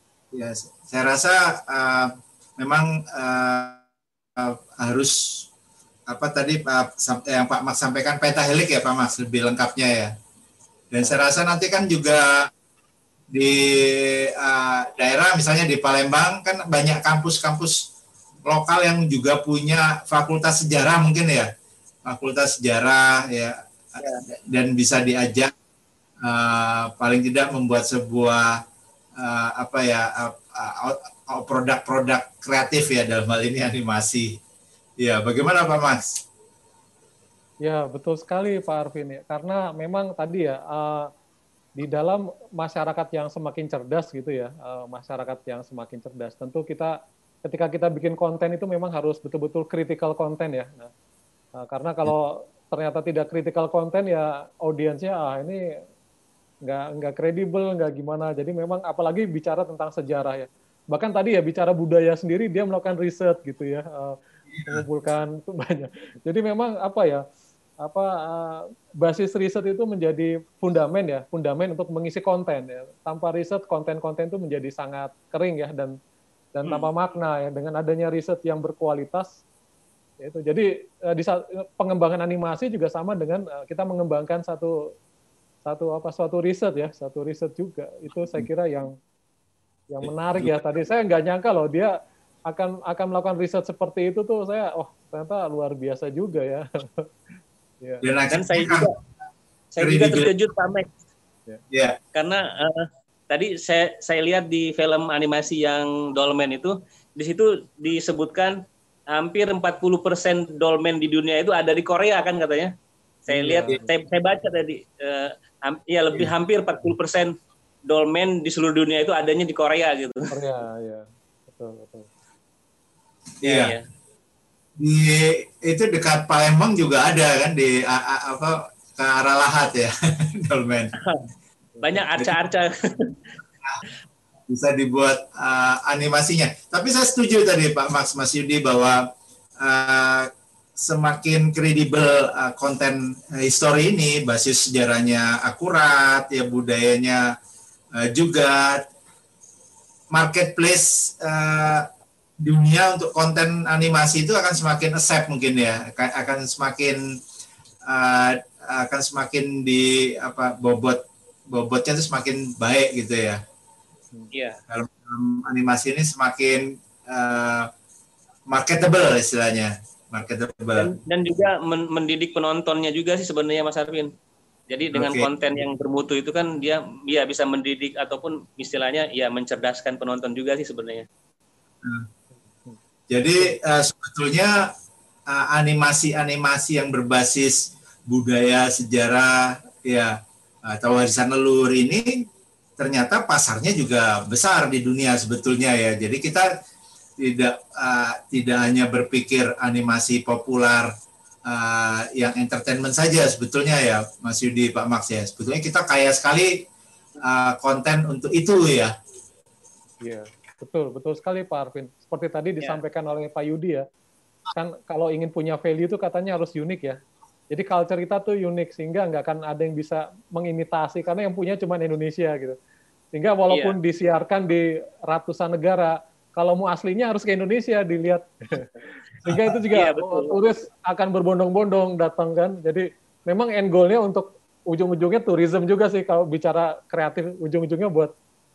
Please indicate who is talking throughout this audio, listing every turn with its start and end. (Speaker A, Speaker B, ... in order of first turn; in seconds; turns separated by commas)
Speaker A: 0.3-3.8, Speaker A: 4.4-5.5, Speaker A: 6.1-10.1, Speaker A: 10.9-12.5, Speaker A: 13.3-17.9, Speaker A: 18.5-21.5, Speaker A: 22.1-25.5, Speaker A: 26.2-28.6, Speaker A: 29.2-34.4, Speaker A: 35.0-36.2, Speaker B: 37.6-41.1, Speaker B: 41.8-50.9, Speaker B: 51.6-55.6, Speaker B: 56.6-64.2, Speaker A: 64.5-64.8, Speaker B: 64.7-67.2, Speaker B: 67.8-76.0, Speaker B: 76.5-79.4, Speaker B: 80.2-84.8, Speaker B: 85.7-89.0, Speaker B: 89.9-91.9, Speaker B: 92.5-97.1, Speaker A: 98.0-98.9, Speaker C: 98.3-98.9, Speaker C: 99.8-100.9, Speaker A: 99.8-100.3, Speaker A: 101.7-102.0, Speaker C: 102.2-108.5, Speaker C: 109.1-112.7, Speaker C: 113.3-117.3, Speaker B: 113.3-113.9, Speaker C: 117.9-120.3, Speaker B: 120.3-122.1, Speaker A: 123.4-123.8, Speaker C: 123.4-123.8, Speaker A: 124.8-130.9, Speaker C: 131.8-133.2, Speaker A: 134.5-139.0, Speaker A: 139.6-140.3, Speaker A: 140.8-147.2, Speaker A: 148.0-148.8, Speaker A: 150.1-151.9, Speaker A: 152.4-157.0, Speaker A: 157.9-163.4, Speaker C: 164.3-164.6, Speaker A: 164.7-167.7, Speaker A: 168.5-170.9, Speaker C: 170.8-174.1, Speaker C: 174.7-181.1, Speaker A: 174.9-175.3, Speaker A: 183.1-184.7, Speaker A: 185.3-190.2, Speaker A: 190.7-192.3, Speaker A: 192.8-196.5, Speaker A: 197.2-200.9, Speaker A: 201.5-206.7, Speaker A: 207.2-208.9, Speaker B: 210.0-213.8, Speaker B: 214.6-217.0, Speaker B: 217.5-222.6, Speaker B: 223.1-228.7, Speaker B: 229.2-238.1, Speaker C: 229.7-230.3